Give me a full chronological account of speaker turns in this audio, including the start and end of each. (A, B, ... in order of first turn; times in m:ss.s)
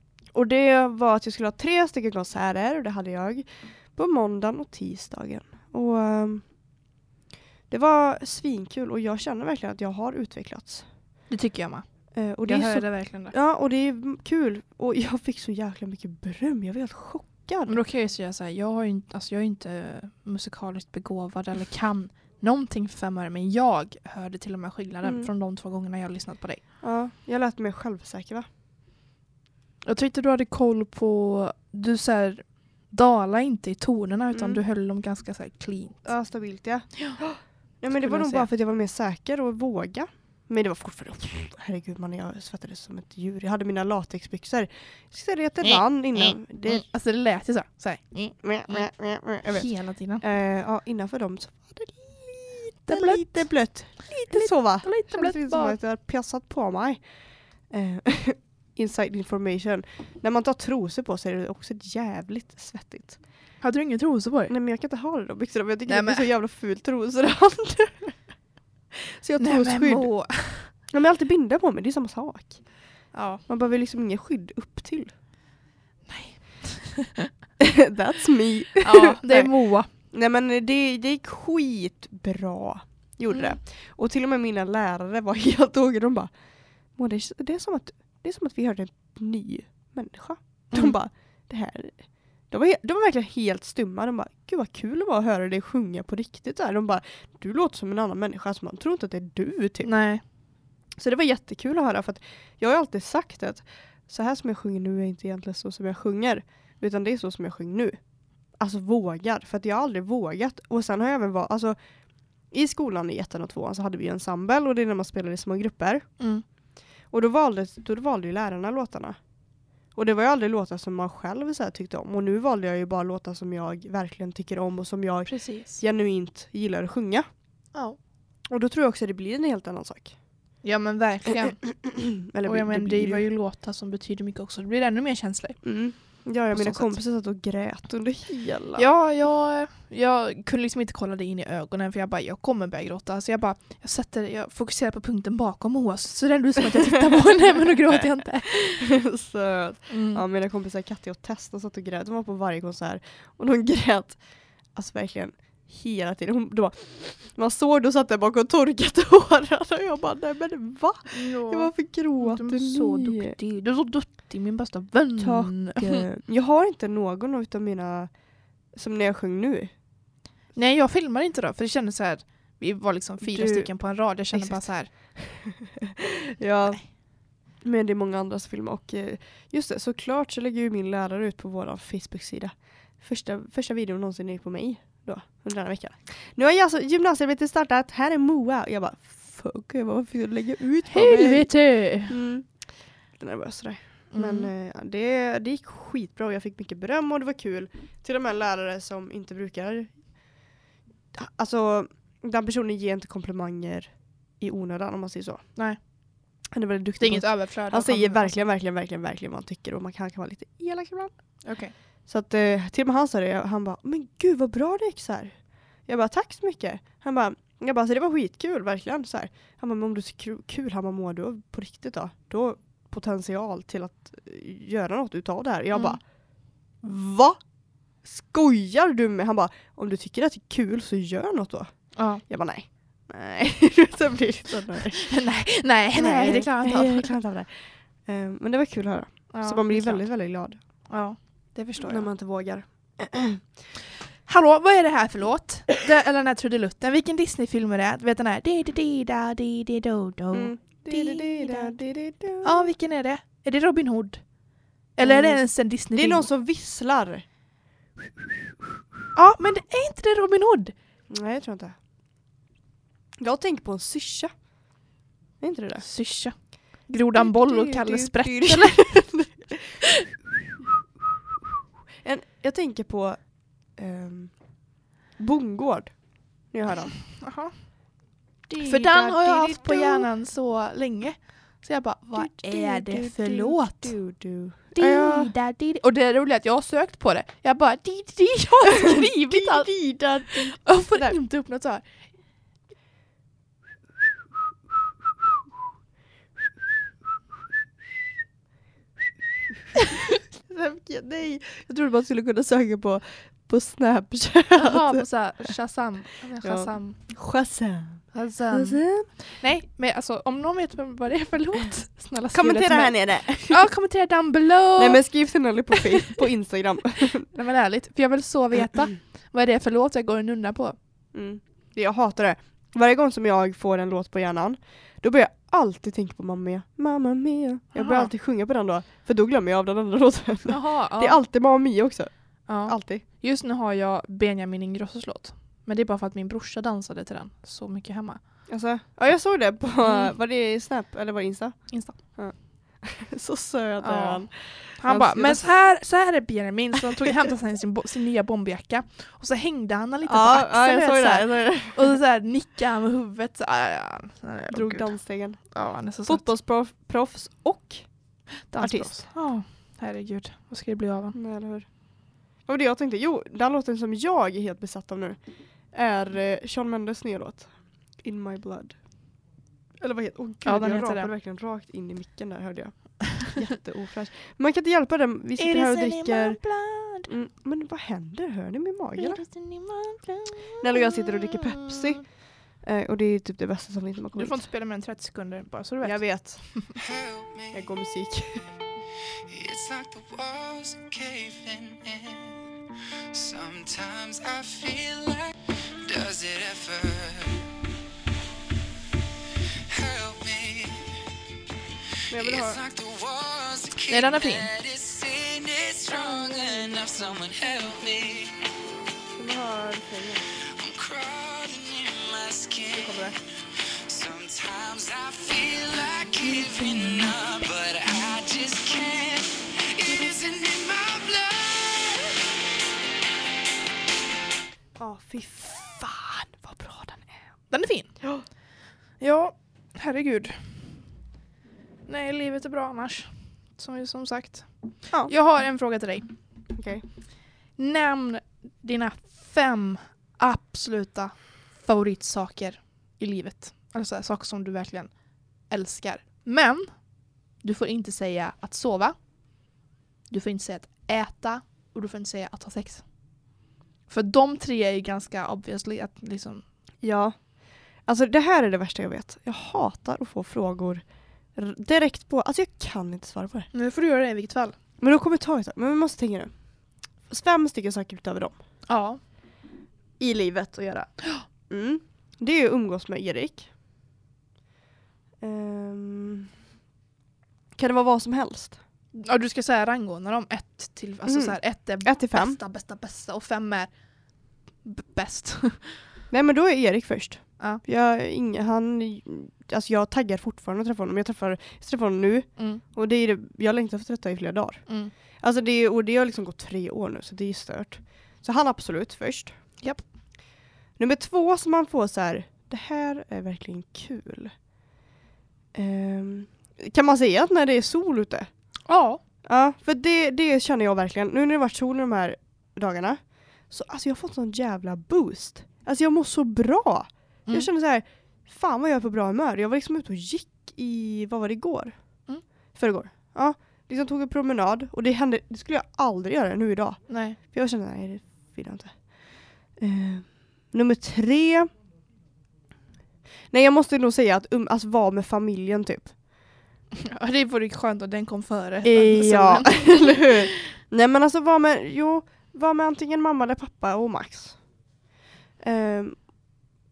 0:00.3-0:06.4 A
0:07.7-0:10.9 A
0:11.3-0:11.8 B
0:12.1-0:17.8 A
0:12.4-0:13.3 B
0:17.7-0:26.6 B
0:25.0-0:25.3 A
0:26.8-0:28.5 A
0:29.8-0:36.0 B
0:34.3-0:34.6 A
0:36.0-0:46.9 A
0:37.9-0:38.5 B
0:45.6-0:48.9 B
0:48.4-0:57.1 A
0:49.4-0:50.2 B
0:52.9-0:55.8 B
0:57.6-1:03.2 A
1:03.6-1:04.5 B
1:04.5-1:08.2 A
1:05.9-1:06.3 B
1:09.1-1:10.1 A
1:09.4-1:10.7 B
1:10.7-1:12.7 A
1:13.1-1:13.4 B
1:13.5-1:15.1 A
1:16.1-1:17.3 B
1:17.6-1:19.5 A
1:18.8-1:19.9 B
1:20.0-1:26.3 A
1:23.3-1:23.6 B
1:26.9-1:39.9 A
1:30.7-1:31.0 B
1:39.8-1:40.2 B
1:41.0-1:48.0 A
1:48.5-1:51.8 A
1:52.4-1:56.2 A
1:56.2-1:56.4 B
1:57.1-1:59.2 A
1:59.9-2:07.3 A
2:05.3-2:05.8 B
2:08.5-2:10.2 A
2:10.6-2:11.9 B
2:11.7-2:13.2 A
2:12.4-2:15.6 B
2:15.6-2:18.9 A
2:16.5-2:17.0 B
2:18.8-2:29.0 B
2:27.2-2:43.4 A
2:29.9-2:30.2 B
2:41.1-2:46.0 B
2:45.2-2:48.1 A
2:48.7-2:49.7 A
2:50.6-2:54.9 B
2:53.2-2:53.7 A
2:54.3-2:57.0 A
2:57.5-3:11.5 A
3:10.9-3:12.2 B
3:12.1-3:20.0 A
3:14.1-3:14.5 B
3:21.1-3:25.5 A
3:26.5-3:31.1 A
3:27.0-3:28.4 B
3:31.4-3:31.7 B
3:32.1-3:46.0 A
3:45.7-3:46.0 B
3:46.8-3:47.4 A
3:48.0-3:55.1 A
3:52.0-3:52.2 B
3:55.0-3:57.1 B
3:55.9-4:00.6 A
3:59.3-4:00.1 B
4:00.9-4:02.1 B
4:01.8-4:03.4 A
4:04.3-4:11.8 B
4:10.3-4:12.7 A
4:12.4-4:14.3 B
4:15.0-4:16.3 B
4:15.0-4:17.3 A
4:19.1-4:20.7 B
4:21.1-4:21.8 A
4:23.2-4:24.3 A
4:25.4-4:25.8 A
4:25.8-4:29.0 B
4:27.2-4:29.8 A
4:32.0-4:34.4 A
4:35.2-4:36.9 A
4:37.2-4:37.5 B
4:38.5-4:40.1 A
4:38.6-4:43.9 B
4:42.1-4:45.3 A
4:44.8-4:49.7 B
4:48.7-4:51.2 A
4:50.2-4:51.8 B
5:00.3-5:05.5 A
5:04.5-5:07.0 B
5:06.4-5:09.1 A
5:08.1-5:15.0 B
5:12.3-5:13.7 A
5:14.8-5:17.3 A
5:17.3-5:20.8 B
5:21.1-5:33.0 A
5:27.7-5:28.1 B
5:30.5-5:31.2 B
5:32.5-5:38.2 B
5:38.5-5:45.5 A
5:39.8-5:40.1 B
5:41.7-5:42.0 B
5:43.8-5:56.3 B
5:50.0-5:51.9 A
5:54.5-5:57.9 A
5:58.5-6:01.2 B
5:58.6-5:59.1 A
6:01.2-6:01.7 A
6:02.4-6:05.2 A
6:05.7-6:08.8 A
6:09.8-6:16.4 A
6:10.4-6:11.1 B
6:15.4-6:17.1 B
6:17.1-6:19.2 A
6:19.0-6:22.0 B
6:20.6-6:22.0 A
6:22.6-6:24.4 A
6:24.2-6:26.7 B
6:25.8-6:26.6 A
6:26.7-6:27.7 C
6:27.5-6:28.5 A
6:29.3-6:32.4 C
6:33.1-6:37.4 C
6:39.7-6:41.0 C
6:42.1-6:42.6 A
6:42.1-6:48.4 C
6:43.9-6:44.5 B
6:46.2-6:46.5 A
6:49.2-6:50.2 A
6:50.6-6:53.3 C
6:52.7-6:53.2 A
6:53.9-7:02.2 C
7:04.8-7:07.2 A
7:07.5-7:07.9 B
7:09.0-7:10.6 B
7:11.9-7:14.5 B
7:15.0-7:16.1 B
7:16.6-7:16.8 A
7:17.6-7:24.9 B
7:25.5-7:26.8 B
7:27.4-7:29.0 B
7:30.1-7:32.8 B
7:33.9-7:36.4 B
7:36.8-7:43.5 A
7:43.5-7:44.6 B
7:44.8-7:46.3 A
7:47.1-7:48.4 A
7:48.7-7:49.0 B
7:50.0-7:50.9 A
7:51.5-7:53.5 A
7:55.2-7:56.3 A
7:57.6-7:58.6 A
7:59.0-8:03.7 B
8:01.1-8:02.4 A
8:04.6-8:05.8 B
8:06.1-8:19.4 A
8:12.4-8:12.6 B
8:14.7-8:14.9 B
8:20.8-8:24.3 A
8:25.5-8:28.3 A
8:28.7-8:29.0 B
8:29.2-8:41.8 A
8:42.6-8:51.5 A
8:46.9-8:47.2 B
8:53.3-8:55.9 A
8:56.9-9:00.4 B
8:58.6-9:04.4 A
9:05.4-9:06.1 A